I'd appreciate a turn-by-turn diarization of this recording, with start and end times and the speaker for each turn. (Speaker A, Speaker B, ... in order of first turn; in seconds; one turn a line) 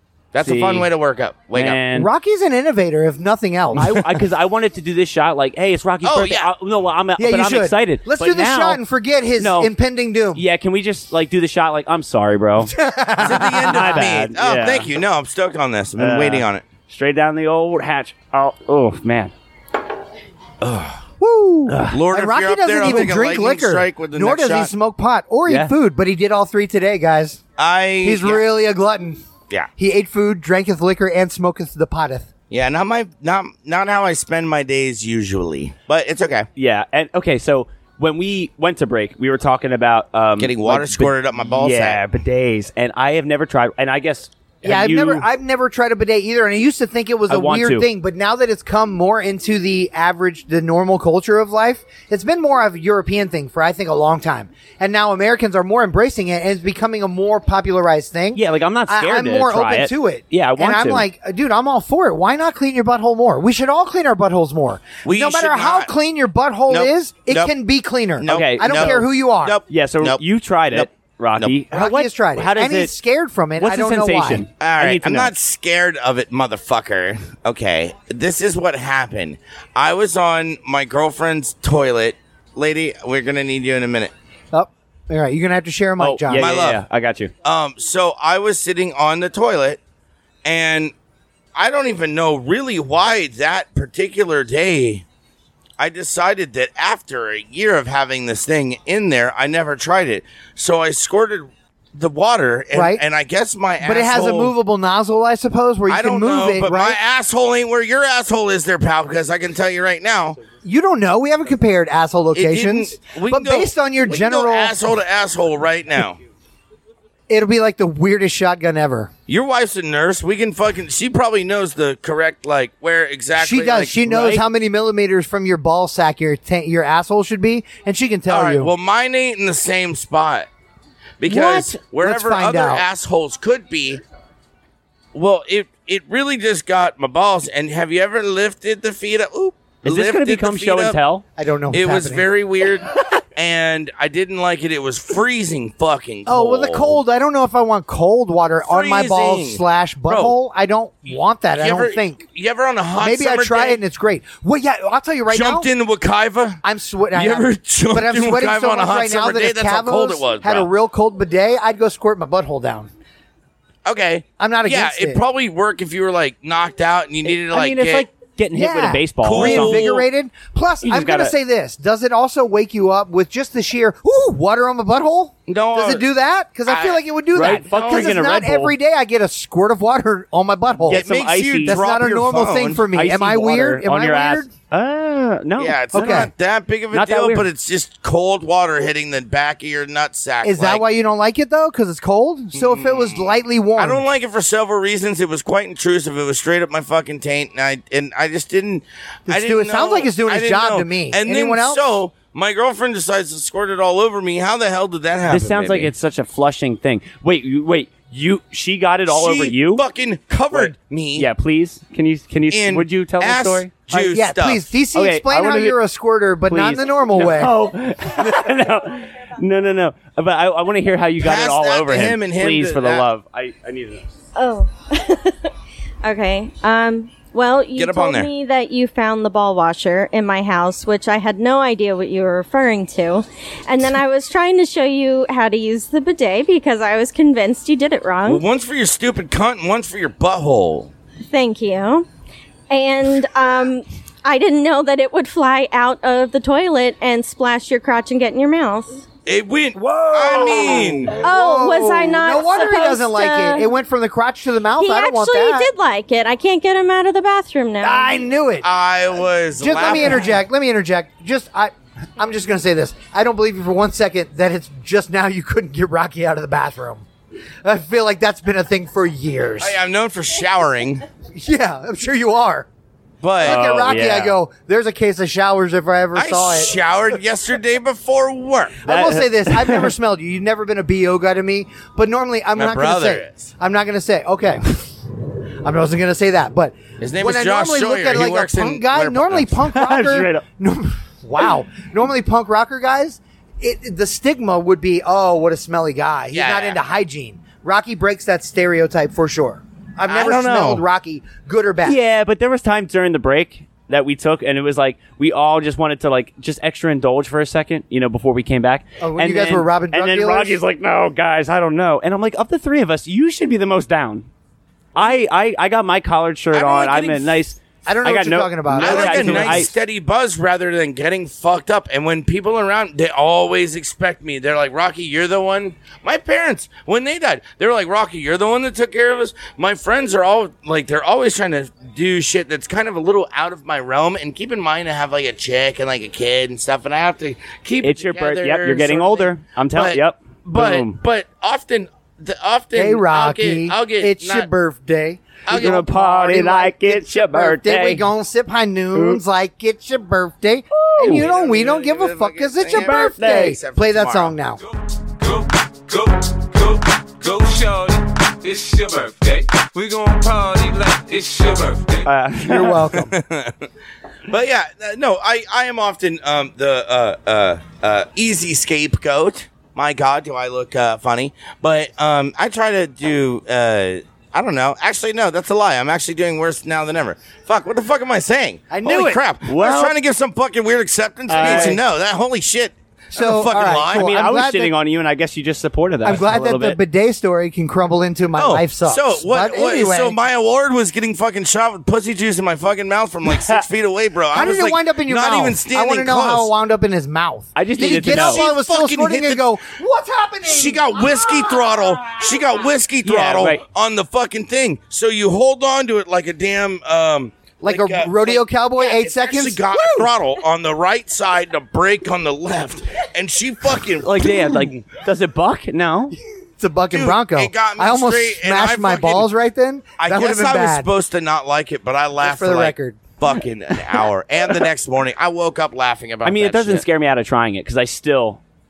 Speaker A: 0.3-1.8
Speaker B: 0.4-0.9
Speaker B: 1.5-2.1
Speaker C: 1.9-4.0
Speaker B: 3.8-8.8
Speaker A: 6.0-6.5
Speaker C: 7.2-10.4
Speaker B: 9.4-9.7
Speaker B: 10.3-14.9
Speaker C: 12.6-14.1
Speaker A: 13.2-16.6
Speaker B: 16.0-19.3
Speaker A: 20.6-21.0
Speaker C: 21.2-27.4
Speaker B: 21.7-22.0
Speaker A: 21.9-24.7
Speaker B: 25.5-25.7
Speaker A: 27.6-28.4
Speaker C: 28.0-29.2
Speaker C: 29.8-32.3
Speaker A: 32.5-36.5
Speaker B: 36.5-45.2
Speaker A: 40.4-42.0
Speaker C: 44.6-69.6
Speaker B: 47.3-47.9
Speaker B: 58.3-61.0
Speaker A: 65.0-65.9
Speaker A: 66.7-67.5
Speaker A: 68.2-71.5
Speaker B: 68.3-69.1
Speaker B: 69.7-72.9
Speaker C: 71.7-74.5
Speaker B: 73.6-75.3
Speaker A: 74.6-84.1
Speaker C: 84.5-86.5
Speaker B: 86.0-87.3
Speaker A: 86.3-86.8
Speaker A: 87.4-89.8
Speaker A: 90.4-90.9
Speaker A: 91.5-95.0
Speaker A: 95.8-104.5
Speaker C: 102.7-103.0
Speaker C: 103.8-107.0
Speaker A: 105.9-110.4
Speaker C: 110.6-114.8
Speaker A: 112.3-116.2
Speaker C: 117.3-119.1
Speaker A: 119.3-124.3
Speaker C: 123.4-128.7
Speaker B: 124.1-124.4
Speaker A: 128.3-130.5
Speaker A: 131.2-134.0
Speaker C: 131.2-132.8
Speaker A: 135.1-141.0
Speaker B: 139.8-141.2
Speaker C: 141.4-142.3
Speaker A: 141.7-147.0
Speaker C: 146.2-152.2
Speaker A: 148.7-150.3
Speaker A: 151.6-153.8
Speaker C: 153.0-155.7
Speaker A: 155.3-156.6
Speaker C: 156.6-162.9
Speaker A: 157.1-160.7
Speaker A: 163.8-168.1
Speaker C: 164.4-165.2
Speaker B: 167.2-169.9
Speaker C: 168.5-181.0
Speaker A: 169.2-170.0
Speaker B: 170.8-171.3
Speaker A: 175.5-176.0
Speaker A: 176.7-177.0
Speaker B: 177.3-178.7
Speaker A: 177.7-178.1
Speaker B: 180.8-181.8
Speaker A: 180.9-182.8
Speaker C: 181.6-184.5
Speaker B: 182.9-186.3
Speaker A: 185.6-190.8
Speaker C: 185.9-186.3
Speaker B: 186.9-187.4
Speaker C: 190.4-194.0
Speaker A: 192.5-205.9
Speaker C: 199.3-201.8
Speaker B: 205.3-209.8
Speaker A: 209.1-211.3
Speaker B: 210.5-213.7
Speaker A: 212.5-214.6
Speaker C: 213.9-217.6
Speaker B: 214.9-215.8
Speaker B: 216.5-224.0
Speaker A: 221.2-223.1
Speaker D: 224.3-225.5
Speaker D: 226.0-238.4
Speaker A: 227.7-228.3
Speaker A: 238.2-240.9
Speaker D: 241.3-242.1
Speaker D: 242.7-249.0
Speaker A: 249.2-251.2
Speaker C: 250.1-255.7
Speaker D: 251.2-253.7
Speaker D: 254.8-258.2
Speaker C: 257.8-258.7
Speaker A: 258.6-260.4
Speaker C: 259.6-267.0
Speaker C: 267.6-269.8
Speaker A: 269.6-271.0
Speaker C: 271.3-272.7
Speaker A: 273.2-273.6
Speaker C: 273.4-276.7
Speaker B: 273.4-274.4
Speaker A: 276.1-278.8
Speaker C: 278.8-284.9
Speaker B: 278.9-279.9
Speaker A: 282.6-283.5
Speaker C: 285.6-302.0
Speaker A: 287.0-289.6
Speaker B: 289.7-290.4
Speaker A: 296.3-296.8
Speaker A: 300.1-300.8
Speaker B: 301.8-314.3
Speaker C: 309.0-310.6
Speaker B: 314.9-319.7
Speaker A: 316.5-317.4
Speaker C: 317.9-319.7
Speaker A: 318.8-344.5
Speaker B: 337.8-340.9
Speaker C: 342.7-354.6
Speaker A: 345.4-345.8
Speaker B: 345.5-348.1
Speaker B: 348.9-349.2
Speaker B: 350.7-351.3
Speaker A: 351.0-354.4
Speaker B: 352.8-353.5
Speaker E: 354.6-362.1
Speaker B: 362.0-362.8
Speaker C: 362.4-363.1
Speaker A: 362.9-363.7
Speaker A: 364.3-384.1
Speaker C: 378.7-379.2
Speaker B: 379.4-379.9
Speaker B: 381.3-381.8
Speaker C: 381.4-381.8
Speaker C: 383.1-384.7
Speaker B: 383.9-386.8
Speaker C: 386.0-390.2
Speaker A: 388.4-396.5
Speaker B: 393.3-393.6
Speaker C: 394.3-401.8
Speaker B: 397.5-398.4
Speaker A: 397.8-399.5
Speaker A: 400.4-414.6
Speaker B: 403.0-403.6
Speaker C: 407.6-410.1
Speaker B: 414.0-416.1
Speaker C: 416.6-420.9
Speaker A: 416.9-419.3
Speaker A: 420.0-426.8
Speaker C: 422.2-423.0
Speaker B: 426.2-428.4